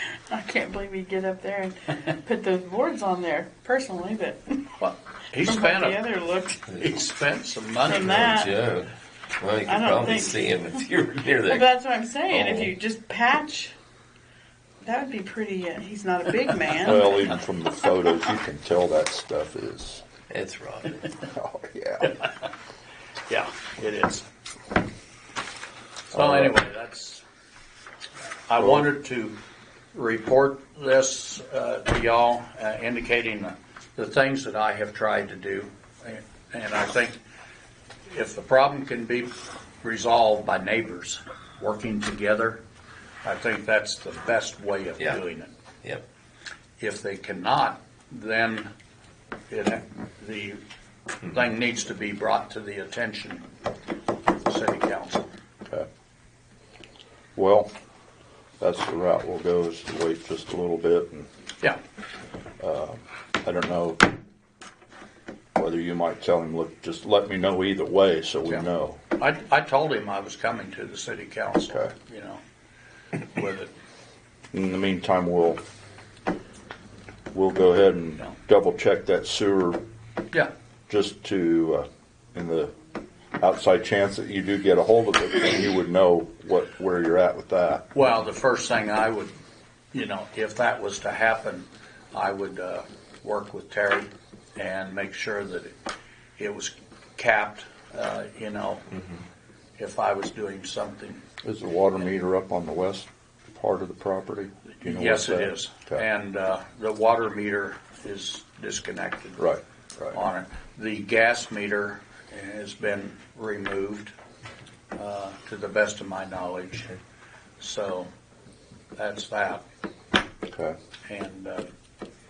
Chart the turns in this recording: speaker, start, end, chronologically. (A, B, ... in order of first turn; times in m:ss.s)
0:00.3-0:04.6 A
0:04.8-0:06.0 B
0:05.4-0:06.6 A
0:06.7-0:07.0 C
0:06.8-0:08.3 B
0:07.9-0:08.5 A
0:07.9-0:11.8 C
0:09.6-0:10.4 A
0:11.4-0:13.7 A
0:12.3-0:12.7 C
0:14.8-0:17.1 A
0:16.8-0:20.0 D
0:20.3-0:21.2 C
0:21.3-0:22.1 D
0:23.3-0:24.2 B
0:26.1-0:27.2 B
0:26.1-0:26.5 D
0:28.5-0:29.4 B
0:28.6-0:28.8 D
0:29.9-0:37.2 B
0:38.1-0:42.6 B
0:43.2-0:45.5 B
0:46.8-0:48.7 B
0:49.5-0:50.6 B
0:51.3-0:53.4 B
0:54.4-0:55.3 B
0:57.4-0:57.7 D
0:58.6-1:01.3 D
1:02.6-1:04.1 D
1:05.6-1:09.0 D
1:08.4-1:12.4 B
1:13.3-1:13.7 B
1:14.5-1:15.6 D
1:17.3-1:19.8 D
1:20.9-1:22.7 D
1:23.4-1:27.8 D
1:27.9-1:29.3 B
1:29.9-1:35.7 B
1:36.4-1:38.8 B
1:39.8-1:41.2 B
1:41.4-1:46.0 D
1:44.8-1:49.4 B
1:49.4-1:50.2 D
1:50.1-1:54.1 B
1:54.9-1:57.0 B
1:57.6-1:58.1 B
1:59.0-1:59.6 B
2:00.5-2:00.8 D
2:01.0-2:01.7 B